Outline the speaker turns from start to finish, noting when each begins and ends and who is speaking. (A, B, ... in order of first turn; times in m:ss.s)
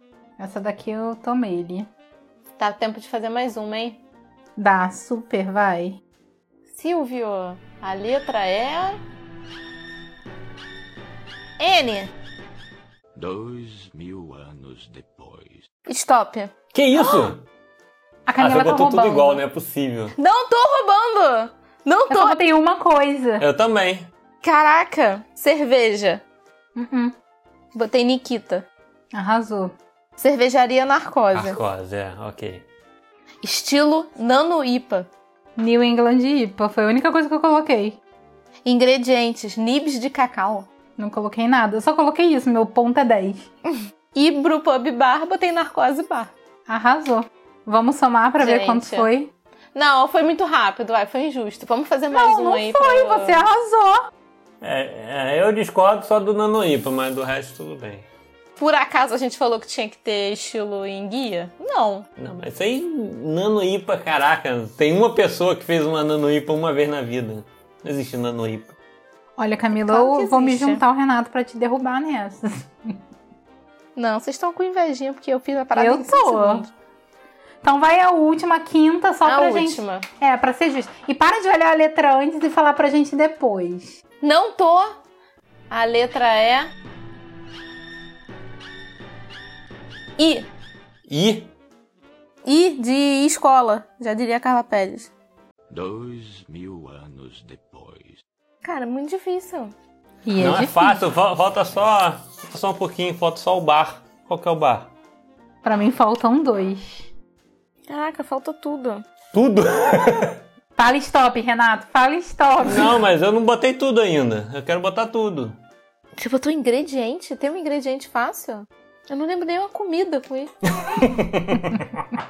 0:00.4-0:01.9 A
0:02.6-0:04.0 B
0:04.6-0:06.0 A
0:06.7-0:09.0 B
0:11.6-0:12.1 B
0:13.2-0:15.6 C
0:15.9-0:17.3 B
0:16.7-0:17.4 D
0:18.3-0:19.4 A
0:18.4-0:20.1 D
0:20.2-0:22.4 B
0:22.1-0:23.4 A
0:23.4-0:24.1 D
0:24.4-0:26.2 B
0:26.8-0:27.1 A
0:27.7-0:28.6 B
0:29.1-0:29.7 A
0:30.2-0:31.6 B
0:31.3-0:32.6 D
0:33.4-0:35.1 B
0:35.6-0:38.0 A
0:38.7-0:40.7 B
0:41.0-0:43.5 A
0:44.1-0:46.3 B
0:46.7-0:49.3 A
0:48.4-0:49.1 B
0:49.8-0:53.4 B
0:52.1-0:54.1 A
0:54.6-0:58.0 D
0:58.6-1:02.0 B
1:02.2-1:08.7 D
1:09.4-1:13.0 A
1:09.8-1:10.8 B
1:14.0-1:16.7 B
1:15.8-1:16.7 A
1:17.6-1:24.0 A
1:19.2-1:20.1 B
1:24.2-1:25.0 B
1:25.7-1:26.7 B
1:30.2-1:30.4 B
1:31.1-1:31.5 D
1:32.4-1:35.1 B
1:35.7-1:38.2 C
1:38.6-1:39.7 B
1:40.3-1:41.0 A
1:40.4-1:44.9 D
1:45.6-1:47.1 A
1:47.9-1:49.0 B
1:49.3-1:50.4 D
1:50.8-1:53.0 A
1:52.6-1:55.6 D
1:56.2-2:00.5 B
2:00.8-2:01.8 D